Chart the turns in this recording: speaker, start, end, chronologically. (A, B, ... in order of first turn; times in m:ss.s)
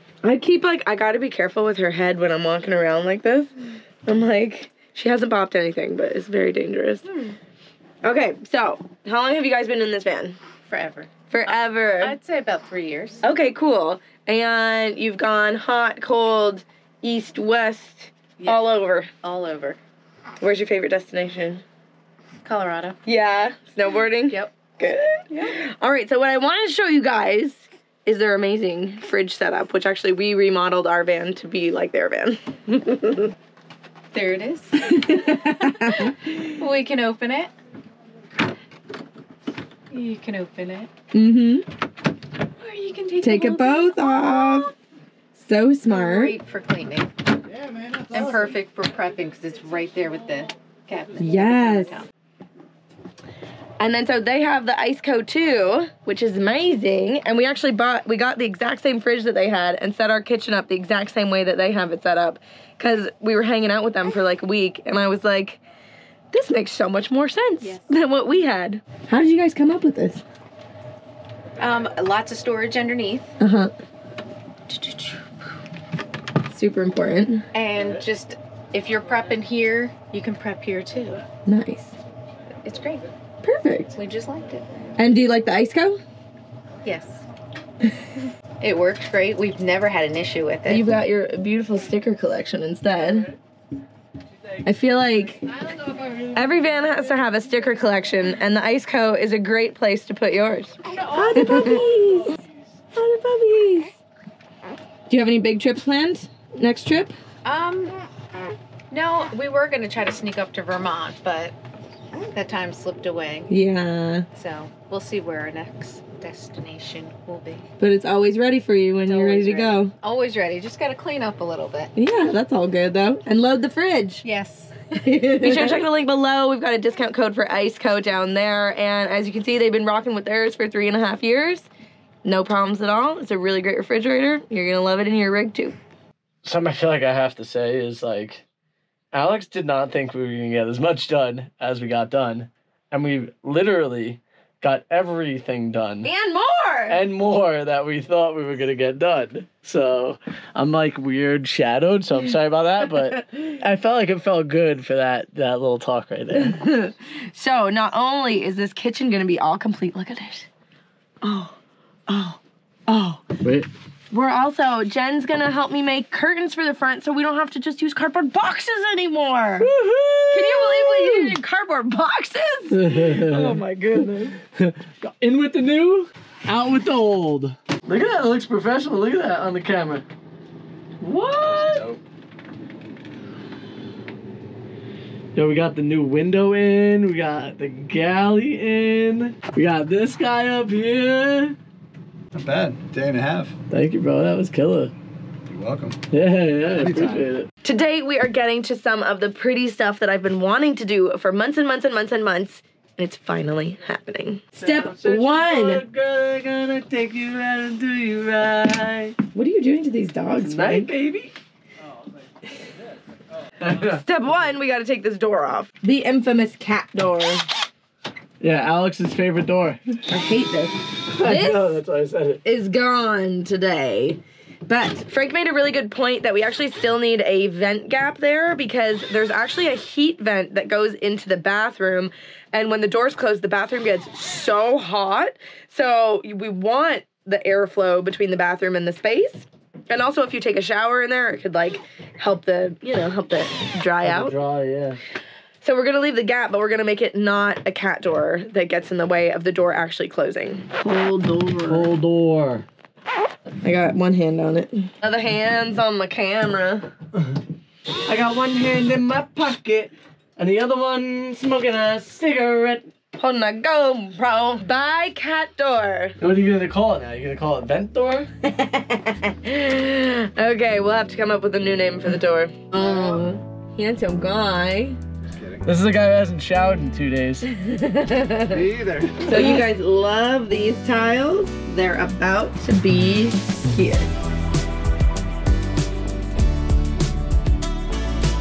0:00.2-0:03.5 A
0:04.0-0:07.1 A
0:08.0-0:10.4 A
0:10.7-0:11.1 B
0:11.3-0:12.2 A
0:12.0-0:13.2 B
0:13.2-0:19.1 A
0:18.4-0:18.6 B
0:19.1-0:19.8 B
0:20.4-0:21.6 A
0:22.4-0:23.0 B
0:23.0-0:33.3 A
0:25.3-0:25.6 B
0:34.1-0:37.5 B
0:34.8-0:36.3 A
0:39.9-0:40.9 B
0:41.1-0:41.6 A
0:42.6-0:44.7 B
0:43.2-0:44.7 A
0:45.4-0:46.4 A
0:45.9-0:47.1 B
0:47.4-0:48.5 C
0:48.1-0:52.1 B
0:51.2-0:52.0 A
0:53.8-1:05.6 A
1:06.3-1:10.2 A
1:07.6-1:07.9 B
1:11.6-1:13.4 B
1:13.4-1:13.7 A
1:14.7-1:15.2 B
1:16.5-1:17.4 A
1:17.5-1:21.2 B
1:21.4-1:21.9 A
1:22.6-1:23.1 B
1:23.4-1:24.0 A
1:23.9-1:24.7 B
1:25.0-1:26.0 A
1:26.8-1:27.2 B
1:28.6-1:30.9 B
1:30.7-1:33.3 A
1:33.0-1:33.4 D
1:34.6-1:35.5 A
1:35.5-1:37.4 D
1:36.4-1:42.4 A
1:40.9-1:42.2 B
1:41.1-1:42.6 D
1:42.9-1:43.9 A
1:45.1-1:47.1 A
1:47.4-1:48.0 B
1:48.9-1:51.6 B
1:52.1-1:53.5 B
1:53.5-1:54.3 A
1:54.4-1:57.6 B
1:57.8-1:59.9 A
1:59.1-2:01.9 B
2:01.9-2:04.2 A
2:04.2-2:05.8 B
2:05.0-2:11.7 A
2:12.2-2:15.8 A
2:16.4-2:18.4 D
2:19.1-2:26.1 D
2:26.0-2:27.0 A
2:26.9-2:36.6 D
2:36.4-2:40.5 A
2:41.2-2:41.6 A
2:42.1-2:43.3 A
2:43.4-2:43.7 D
2:44.1-2:49.7 A
2:49.6-2:51.4 D
2:50.3-2:54.3 A
2:52.7-3:00.0 D
3:01.0-3:01.9 D
3:01.5-3:02.0 C
3:05.4-3:11.6 D
3:12.3-3:13.6 C
3:13.7-3:14.9 D
3:15.5-3:16.0 C
3:16.1-3:17.5 D
3:16.7-3:17.2 C
3:17.6-3:25.8 A
3:24.6-3:29.2 D
3:29.3-3:30.9 A
3:30.4-3:31.3 D
3:33.6-3:34.0 D
3:33.8-3:37.4 A
3:38.4-3:40.0 D
3:40.1-3:41.8 A
3:41.1-3:42.4 D
3:42.4-4:04.4 A
4:04.0-4:05.0 D
4:05.6-4:11.9 A
4:11.7-4:12.6 D
4:13.6-4:16.9 A
4:18.1-4:22.9 D
4:23.2-4:26.2 A
4:26.2-4:28.3 D
4:28.4-4:35.0 A
4:32.8-4:33.2 C
4:35.3-4:35.7 C
4:35.6-4:37.5 D
4:37.5-4:38.6 A
4:38.5-4:39.6 C
4:39.2-4:44.1 A